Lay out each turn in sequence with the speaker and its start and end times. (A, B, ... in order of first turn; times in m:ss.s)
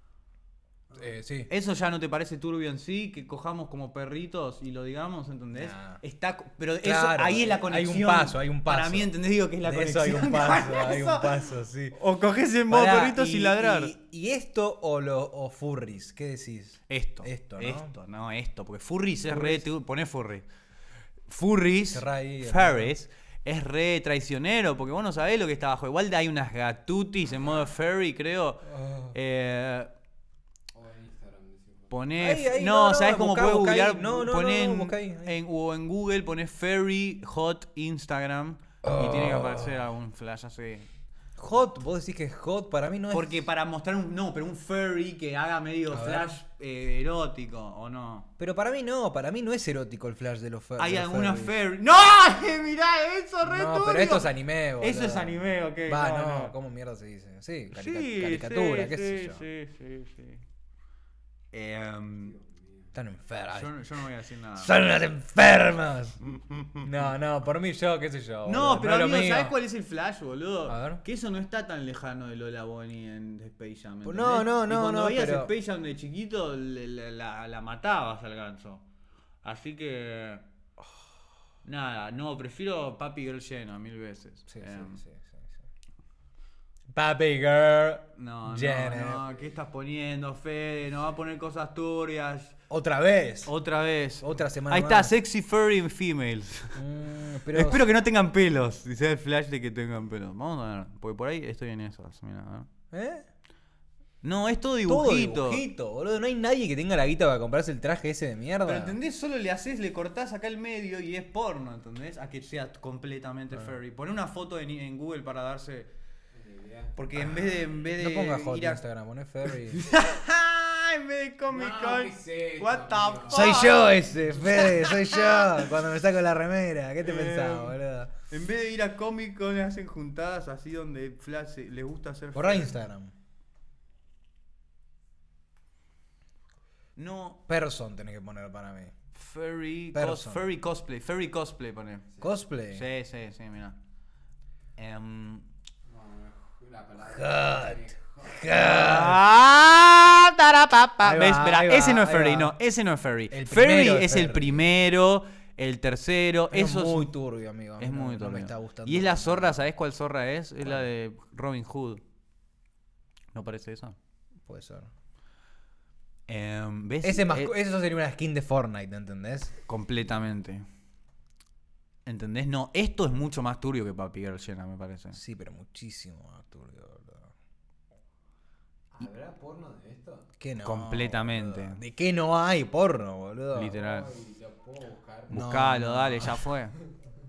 0:00.9-0:01.5 A
0:01.5-0:13.9 B
0:05.5-0:06.0 A
0:06.8-0:11.9 A
0:12.7-0:17.9 A
0:16.9-0:20.4 B
0:19.3-0:19.6 A
0:21.3-0:29.9 B
0:21.9-0:22.9 A
0:28.6-0:29.1 A
0:30.7-0:31.9 C
0:31.9-0:40.9 B
0:32.2-0:35.4 A
0:38.8-0:39.7 A
0:41.4-0:43.4 A
0:43.1-0:48.3 B
0:45.9-0:46.4 A
0:48.4-0:51.5 A
0:50.8-0:56.5 B
0:53.4-0:59.4 A
0:57.7-1:00.4 B
1:01.5-1:02.3 B
1:02.2-1:02.9 C
1:02.9-1:03.8 A
1:03.5-1:04.7 B
1:04.6-1:06.2 A
1:06.3-1:06.8 B
1:06.8-1:09.6 A
1:08.4-1:18.8 B
1:10.7-1:11.0 A
1:14.0-1:15.5 A
1:19.4-1:20.4 B
1:21.6-1:25.0 B
1:24.5-1:25.5 A
1:26.9-1:29.2 A
1:28.2-1:32.6 B
1:32.7-1:33.5 A
1:33.4-1:36.8 B
1:34.2-1:35.2 A
1:36.7-1:37.8 A
1:37.5-1:42.7 B
1:42.9-1:43.3 A
1:44.2-1:45.6 B
1:44.8-1:49.0 A
1:48.6-1:55.9 B
1:56.3-1:57.0 C
1:57.0-1:58.8 B
1:57.9-1:59.8 A
1:59.5-2:05.7 B
2:01.5-2:03.7 C
2:03.3-2:08.1 A
2:07.0-2:07.8 B
2:08.3-2:12.8 B
2:12.3-2:13.1 A
2:17.0-2:17.4 B
2:17.5-2:18.9 A
2:19.1-2:22.0 B
2:19.9-2:20.4 A
2:22.2-2:22.8 A
2:22.7-2:23.8 B
2:24.8-2:25.5 B
2:25.8-2:28.9 C
2:27.0-2:29.2 A
2:28.6-2:37.1 B
2:31.0-2:32.6 A
2:33.3-2:34.6 A
2:36.5-2:39.6 A
2:37.8-2:42.0 B
2:43.3-2:44.0 B
2:44.4-2:44.9 A
2:46.3-2:47.5 B
2:47.0-2:49.5 A
2:49.7-2:50.6 B
2:52.0-2:55.2 B
2:55.1-2:57.3 A
2:58.9-3:00.3 C
3:00.4-3:03.7 A
3:00.6-3:01.8 B
3:03.5-3:04.1 B
3:03.7-3:05.5 C
3:05.3-3:06.4 A
3:05.3-3:06.7 B